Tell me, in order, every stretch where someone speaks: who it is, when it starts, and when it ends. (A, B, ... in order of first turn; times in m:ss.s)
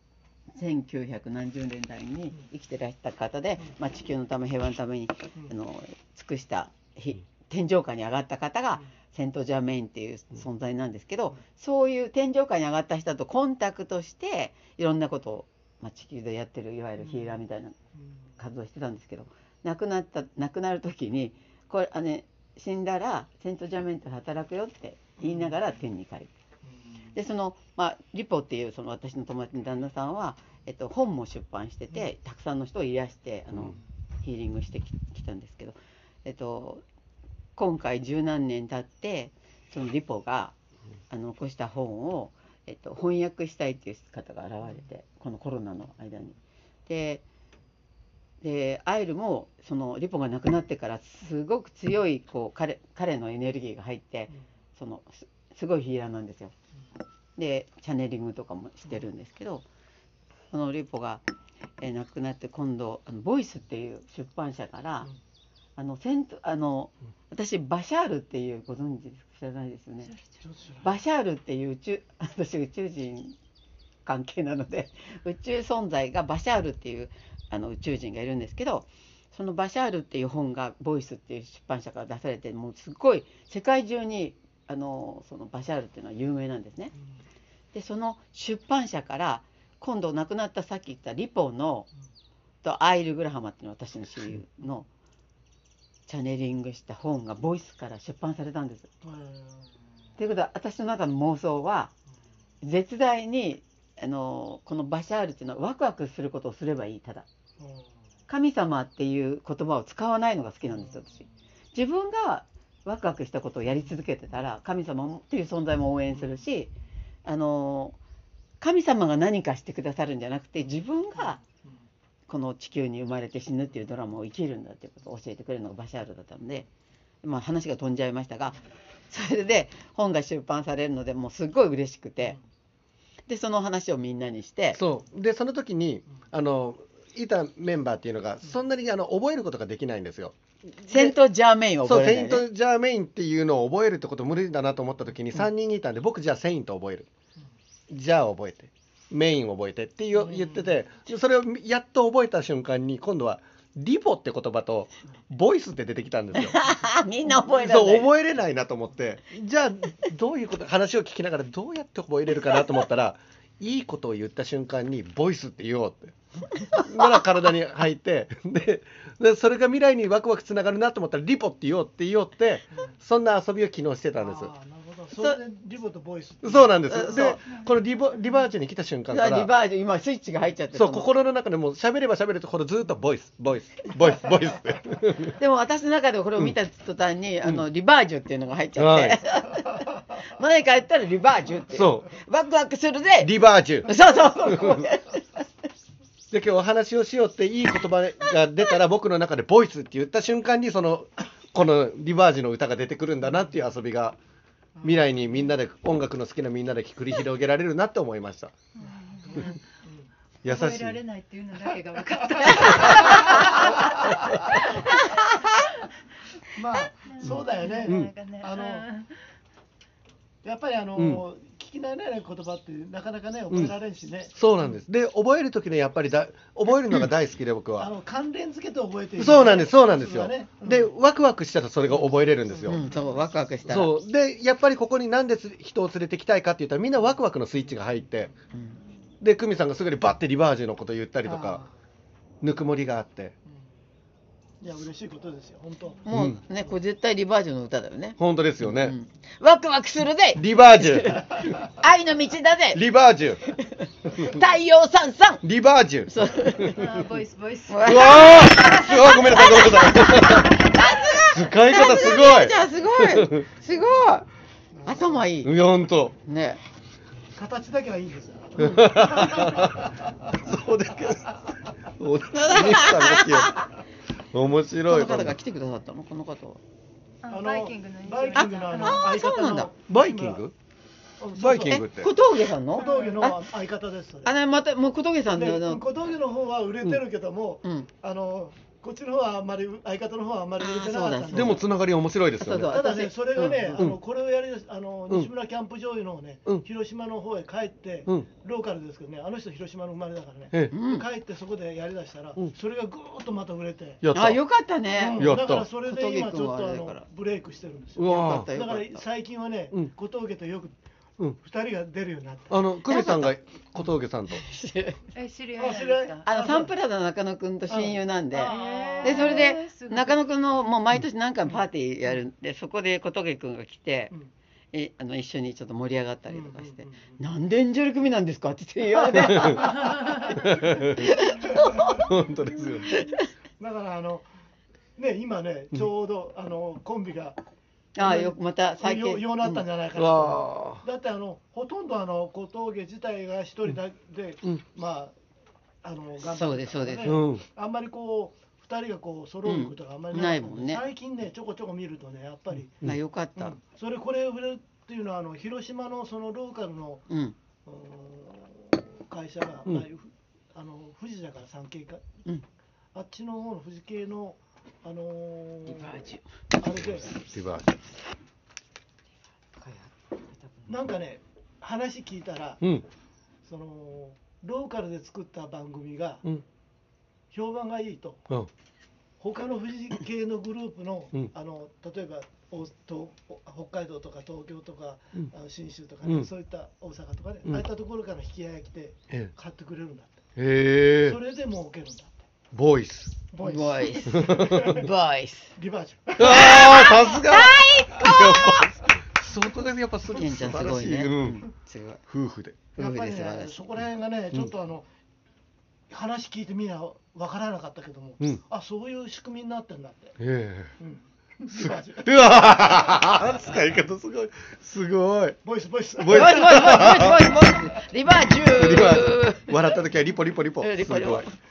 0:00.6-0:17.8 A
0:17.0-0:17.4 B
0:18.4-0:26.3 A
0:25.2-0:25.6 B
0:27.1-0:36.8 A
0:37.6-0:40.6 A
0:41.1-0:47.2 A
0:48.4-0:56.5 A
0:57.4-0:59.7 A
1:00.5-1:01.2 A
1:01.8-1:05.1 A
1:05.8-1:10.1 A
1:10.4-1:11.0 B
1:10.8-1:13.4 A
1:14.0-1:26.9 A
1:27.7-1:31.9 A
1:32.6-1:34.9 A
1:36.1-1:38.9 A
1:39.0-1:39.6 B
1:40.2-1:41.9 A
1:42.6-1:47.3 A
1:47.6-1:47.9 B
1:48.3-1:56.7 A
1:50.7-1:51.1 B
1:57.3-1:58.0 A
1:58.6-2:01.4 A
2:02.3-2:06.7 A
2:07.2-2:12.4 A
2:13.3-2:14.8 A
2:14.8-2:21.2 C
2:20.9-2:22.4 A
2:21.8-2:27.1 C
2:27.9-2:36.6 C
2:30.2-2:30.8 B
2:36.4-2:38.1 A
2:37.5-2:46.1 C
2:46.6-2:47.2 A
2:46.7-2:54.5 C
2:54.2-2:57.1 B
2:56.4-2:59.5 C
2:56.9-2:57.5 A
2:59.1-3:01.1 A
3:00.7-3:05.4 C
3:05.4-3:15.5 A
3:08.8-3:09.2 C
3:11.7-3:12.1 C
3:13.2-3:13.9 C
3:14.5-3:14.8 C
3:16.3-3:24.2 C
3:24.8-3:25.2 B
3:24.8-3:28.5 C
3:28.8-3:29.4 D
3:28.8-3:30.1 B
3:30.4-3:31.0 C
3:30.4-3:35.9 D
3:32.1-3:34.8 B
3:36.5-3:38.9 B
3:37.0-3:39.2 D
3:37.2-3:38.1 C
3:40.4-3:44.4 B
3:41.0-3:41.2 C
3:44.4-3:47.9 C
3:47.8-3:50.9 B
3:49.2-3:52.8 C
3:52.5-3:52.8 B
3:52.7-3:53.9 A
3:53.7-3:58.3 C
3:58.5-3:58.8 A
3:59.2-4:01.6 C
4:01.2-4:01.7 B
4:02.4-4:03.4 C
4:04.6-4:06.0 B
4:06.0-4:12.8 A
4:06.1-4:06.4 C
4:08.2-4:09.0 C
4:10.4-4:11.2 C
4:12.7-4:13.4 C
4:13.4-4:15.4 A
4:15.4-4:16.3 C
4:16.1-4:17.0 A
4:16.6-4:19.6 D
4:17.7-4:24.3 A
4:17.8-4:20.7 C
4:21.3-4:23.5 C
4:24.8-4:25.2 B
4:24.9-4:25.5 A
4:25.4-4:26.2 C
4:26.2-4:26.6 A
4:27.4-4:30.0 B
4:28.6-4:33.6 C
4:32.5-4:33.6 A
4:34.3-4:35.4 C
4:34.9-4:36.6 A
4:37.2-4:39.2 D
4:37.3-4:40.4 B
4:38.3-4:39.7 A
4:39.9-4:40.5 C
4:41.2-4:41.8 B
4:41.4-4:42.1 C
4:41.5-4:43.4 A
4:42.7-4:44.3 B
4:44.2-4:45.8 A
4:45.3-4:51.6 B
4:50.6-4:51.6 A
4:51.3-4:52.8 C
4:52.4-4:53.8 A
4:52.7-5:04.0 B
5:00.7-5:01.1 A
5:04.0-5:04.4 C
5:04.1-5:07.0 A
5:04.9-5:10.8 B
5:05.2-5:05.7 C
5:08.0-5:08.5 C
5:08.0-5:09.0 A
5:11.4-5:12.6 B
5:12.5-5:14.5 C
5:12.9-5:13.4 A
5:14.3-5:15.1 A
5:15.1-5:16.2 D
5:15.6-5:16.7 B
5:16.2-5:24.1 A
5:17.7-5:19.2 B
5:18.3-5:20.2 D
5:24.7-5:32.1 A
5:26.3-5:27.2 B
5:29.2-5:31.1 C
5:31.6-5:31.9 B
5:31.9-5:33.0 C
5:32.8-5:33.3 A
5:33.6-5:34.3 B
5:35.0-5:37.4 B
5:38.0-5:39.6 A
5:38.0-5:45.1 B
5:40.0-5:40.8 C
5:45.8-5:52.8 B
5:46.2-5:47.2 A
5:47.0-5:47.4 C
5:49.4-5:50.8 A
5:52.8-5:53.6 A
5:53.4-5:57.1 B
5:57.1-5:57.4 A
5:57.7-6:02.0 B
6:03.0-6:06.0 B
6:05.7-6:06.2 A
6:06.6-6:07.2 B
6:07.1-6:07.8 C
6:09.6-6:09.9 A
6:10.5-6:10.7 A
6:10.7-6:12.6 B
6:13.5-6:16.3 B
6:17.3-6:18.3 B
6:19.2-6:30.2 B
6:30.4-6:31.2 C
6:31.0-6:32.1 B
6:32.5-6:33.2 C
6:33.3-6:34.9 B
6:33.4-6:35.5 A
6:34.1-6:34.8 C
6:35.6-6:37.1 B
6:36.2-6:41.4 C
6:36.2-6:38.8 A
6:40.1-6:42.0 A
6:42.1-6:42.7 C
6:42.8-6:43.6 A
6:42.8-6:44.8 B
6:45.9-6:50.2 B
6:50.2-6:50.8 C
6:50.8-6:52.8 B
6:51.5-6:55.4 C
6:55.4-6:57.0 B
6:56.0-6:57.3 C
6:56.1-6:59.8 A
6:58.4-7:01.3 C
7:00.6-7:01.4 A